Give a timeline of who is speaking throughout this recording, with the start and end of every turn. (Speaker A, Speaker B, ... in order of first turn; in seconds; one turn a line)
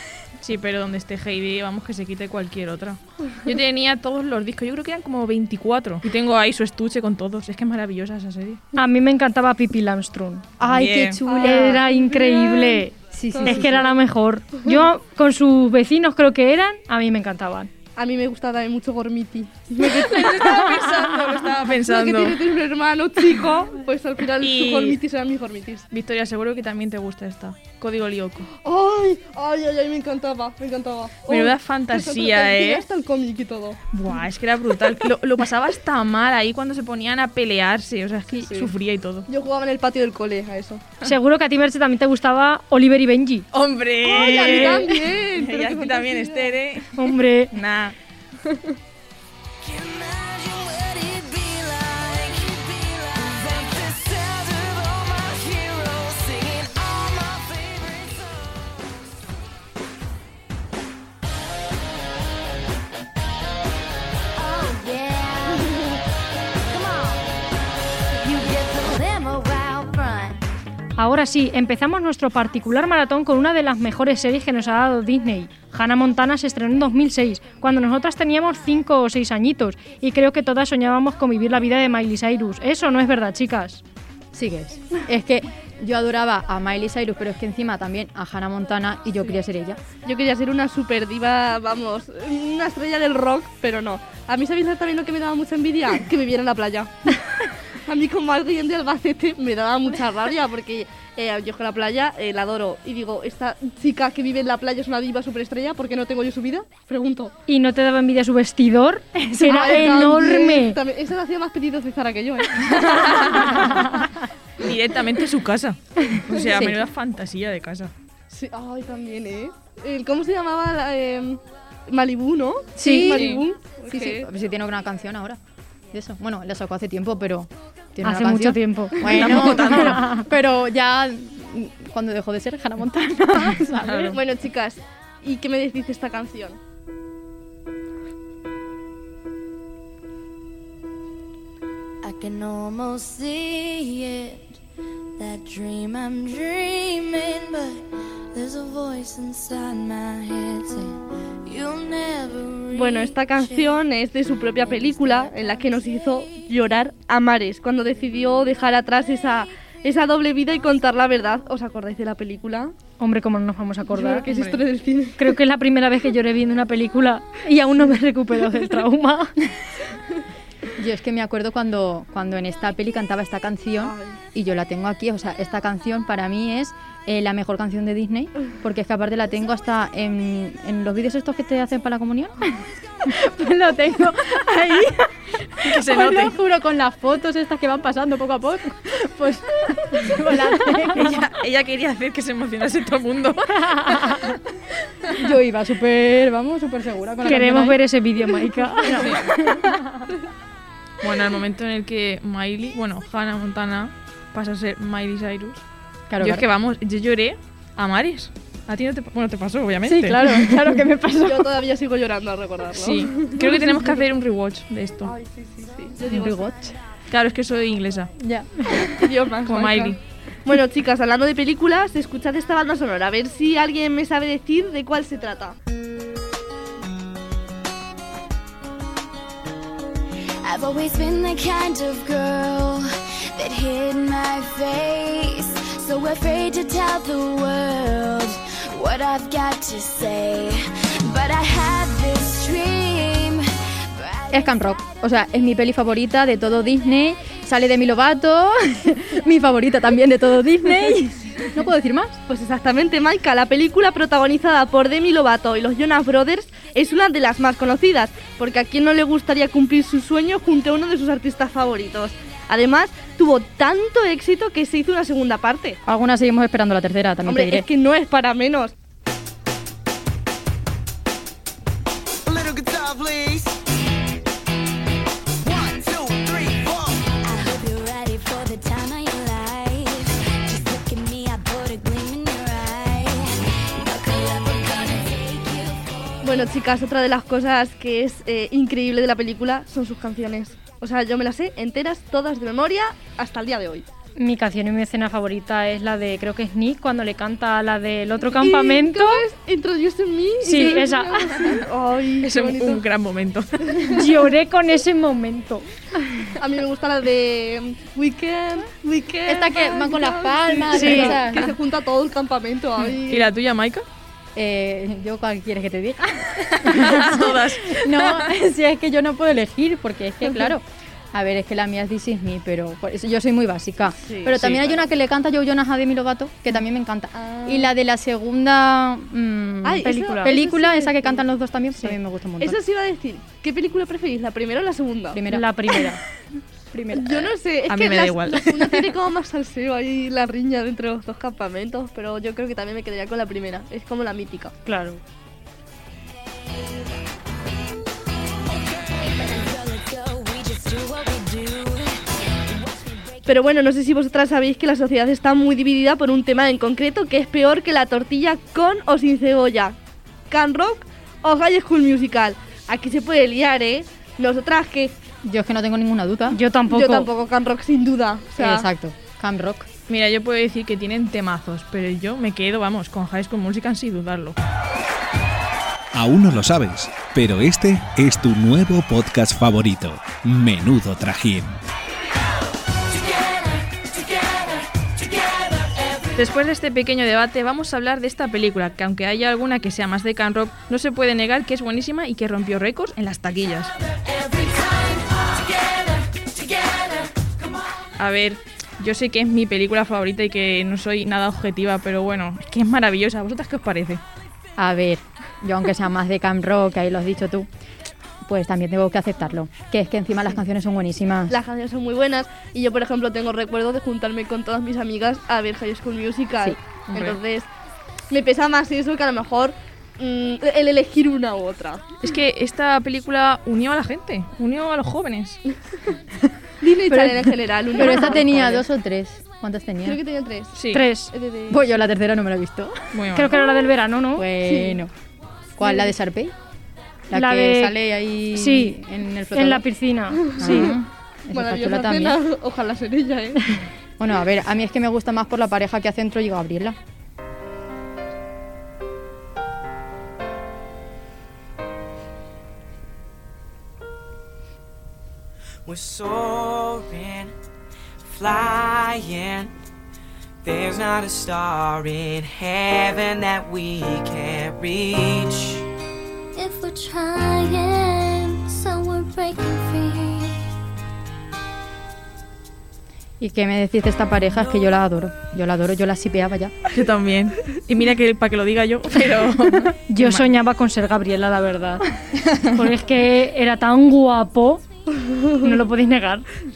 Speaker A: 0.4-8.6
Speaker B: 8.8-10.5
Speaker C: 10.6-11.8
Speaker A: 10.7-11.2
Speaker D: 11.2-13.9
Speaker B: 11.4-12.9
Speaker C: 13.1-13.8
Speaker B: 13.4-17.7
Speaker D: 17.9-25.9
Speaker A: 20.0-22.5
Speaker A: 24.4-25.0
Speaker A: 25.9-28.5
Speaker D: 28.5-33.8
Speaker A: 31.3-32.8
Speaker A: 33.9-39.3
Speaker D: 39.3-40.9
Speaker B: 41.0-43.5
Speaker A: 43.5-48.0
Speaker D: 44.0-46.6
Speaker B: 44.5-44.8
Speaker B: 47.0-47.5
Speaker E: 50.0-51.3
Speaker F: 50.5-51.1
Speaker F: 53.0-56.9
Speaker E: 56.3-58.1
Speaker E: 64.4-65.8
Speaker E: 66.7-67.2
Speaker E: 68.2-70.4
Speaker B: 71.0-83.8
Speaker C: 84.3-89.8
Speaker D: 90.0-107.3
Speaker B: 107.5-110.8
Speaker D: 109.4-113.6
Speaker A: 112.7-113.8
Speaker A: 114.6-117.9
Speaker C: 116.4-116.8
Speaker D: 118.3-124.3
Speaker C: 122.8-123.1
Speaker B: 122.8-123.2
Speaker A: 123.1-123.4
Speaker C: 123.9-125.4
Speaker C: 125.9-134.2
Speaker B: 128.0-130.2
Speaker A: 129.0-130.1
Speaker A: 133.8-134.2
Speaker D: 134.1-136.6
Speaker E: 142.0-144.4
Speaker E: 145.2-147.8
Speaker E: 148.3-150.9
Speaker E: 151.5-153.6
Speaker D: 152.7-162.8
Speaker B: 163.0-164.3
Speaker D: 163.9-165.4
Speaker A: 164.3-164.6
Speaker B: 165.2-169.4
Speaker C: 170.8-191.2
Speaker D: 173.8-174.2
Speaker A: 185.6-186.3
Speaker A: 190.9-194.4
Speaker C: 195.2-197.8
Speaker B: 197.2-199.7
Speaker C: 198.8-199.7
Speaker A: 198.9-199.3
Speaker A: 201.0-205.6
Speaker C: 206.1-206.5
Speaker A: 206.2-210.5
Speaker C: 209.8-211.5
Speaker D: 211.2-214.1
Speaker A: 212.7-215.1
Speaker D: 215.0-216.5
Speaker C: 216.1-216.8
Speaker A: 217.1-218.1
Speaker C: 218.2-219.1
Speaker D: 219.0-225.6
Speaker A: 219.4-220.0
Speaker E: 230.4-243.5
Speaker E: 244.0-244.4
Speaker C: 244.3-252.2
Speaker D: 252.3-265.8
Speaker C: 265.9-267.7
Speaker D: 267.3-268.7
Speaker F: 272.3-273.0
Speaker G: 272.3-273.4
Speaker G: 275.5-276.9
Speaker E: 277.2-285.9
Speaker D: 286.2-293.9
Speaker B: 294.2-299.2
Speaker D: 298.3-302.9
Speaker B: 300.4-301.6
Speaker A: 302.2-303.6
Speaker B: 303.8-305.7
Speaker D: 306.0-313.3
Speaker C: 309.3-311.6
Speaker B: 310.7-311.2
Speaker A: 313.1-313.9
Speaker C: 314.4-332.6
Speaker A: 316.6-318.3
Speaker D: 324.1-324.9
Speaker D: 327.2-327.7
Speaker D: 329.6-331.2
Speaker B: 329.8-330.3
Speaker D: 332.4-335.8
Speaker C: 335.1-335.5
Speaker B: 335.3-336.0
Speaker C: 336.7-337.3
Speaker D: 336.9-344.5
Speaker A: 337.7-338.9
Speaker B: 344.6-345.0
Speaker E: 348.8-351.9
Speaker D: 353.3-359.8
Speaker D: 360.3-365.0
Speaker C: 365.2-366.4
Speaker B: 366.3-367.1
Speaker D: 366.7-368.7
Speaker C: 368.4-369.7
Speaker A: 369.9-374.4
Speaker H: 375.9-381.6
Speaker A: 386.2-393.7
Speaker A: 398.0-404.0
Speaker C: 404.6-407.5
Speaker C: 408.3-411.4
Speaker D: 411.3-417.5
Speaker A: 416.9-417.2
Speaker D: 418.1-421.8
Speaker A: 422.0-425.4
Speaker D: 426.6-428.6
Speaker C: 426.9-430.0
Speaker D: 429.9-431.7
Speaker A: 430.5-430.9
Speaker B: 430.7-431.1
Speaker C: 431.5-432.9
Speaker A: 432.9-433.3
Speaker B: 433.1-434.3
Speaker C: 434.2-434.9
Speaker D: 434.4-434.8
Speaker C: 435.6-436.3
Speaker C: 437.1-439.7
Speaker B: 437.1-437.8
Speaker B: 438.3-438.8
Speaker B: 439.3-440.8
Speaker D: 440.1-440.6
Speaker C: 440.4-442.2
Speaker D: 441.3-443.5
Speaker C: 444.0-446.8
Speaker F: 455.7-457.3
Speaker F: 458.0-459.5
Speaker F: 460.4-465.6
Speaker E: 466.4-470.4
Speaker C: 473.2-476.6
Speaker A: 476.7-480.3
Speaker B: 479.9-481.8
Speaker B: 482.5-484.6
Speaker D: 485.0-485.4
Speaker B: 485.4-486.3